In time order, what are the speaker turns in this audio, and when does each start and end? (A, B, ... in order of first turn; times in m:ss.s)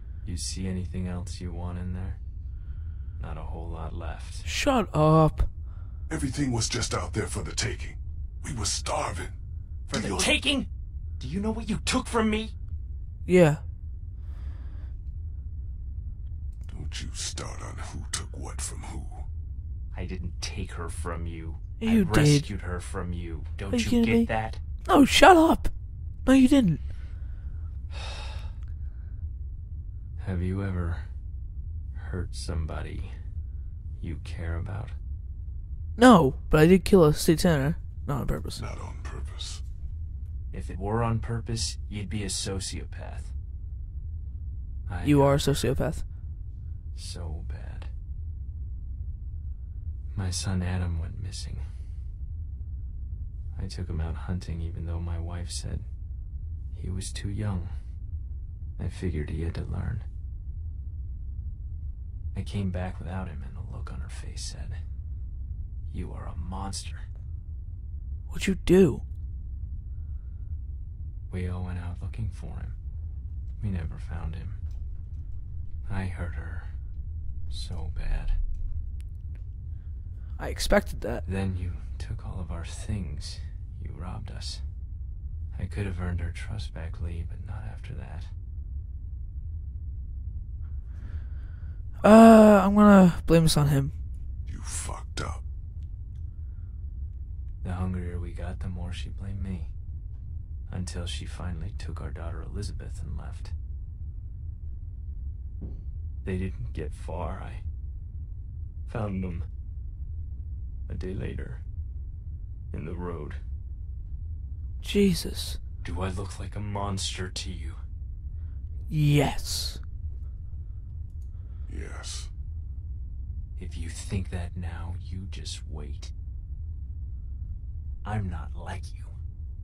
0:00.2-0:02.2 A
0:03.2-0:04.5 A
0:04.4-0:05.5 B
0:06.1-0:09.4 C
0:09.9-0:10.3 C
0:09.9-0:10.7 A
0:11.2-0:12.5 A
0:13.2-0:13.6 B
0:16.7-0:19.3 C
0:19.9-0:24.6 A
0:21.8-0:22.5 B
0:23.7-0:24.3 B
0:24.8-0:25.7 B
0:26.2-0:26.8 B
0:30.2-0:31.1 A
0:31.9-0:33.2 A
0:34.0-0:35.0 A
0:36.0-0:38.6 B
0:38.6-0:39.6 C
0:40.5-0:43.3 A
0:44.9-0:45.7 A
0:45.0-0:46.0 B
0:46.9-0:47.9 A
0:50.1-0:51.6 A
0:53.5-0:55.9 A
0:56.7-0:57.7 A
0:58.8-1:00.0 A
1:02.3-1:04.8 A
1:05.9-1:07.0 A
1:08.3-1:09.0 B
1:11.3-1:12.8 A
1:13.6-1:14.6 A
1:15.9-1:16.8 A
1:17.5-1:18.4 A
1:20.4-1:21.2 B
1:21.2-1:24.6 A
1:25.5-1:28.3 A
1:32.0-1:33.9 B
1:34.5-1:35.4 C
1:37.6-1:39.7 A
1:40.7-1:43.5 A
1:46.2-1:47.6 A
1:48.9-1:49.5 A
1:50.9-1:51.6 A
1:52.7-1:53.4 A
1:54.8-1:55.6 B
1:55.8-1:57.8 A
1:58.9-1:59.8 B
2:01.7-2:02.3 C
2:03.6-2:06.1 A
2:08.0-2:09.1 A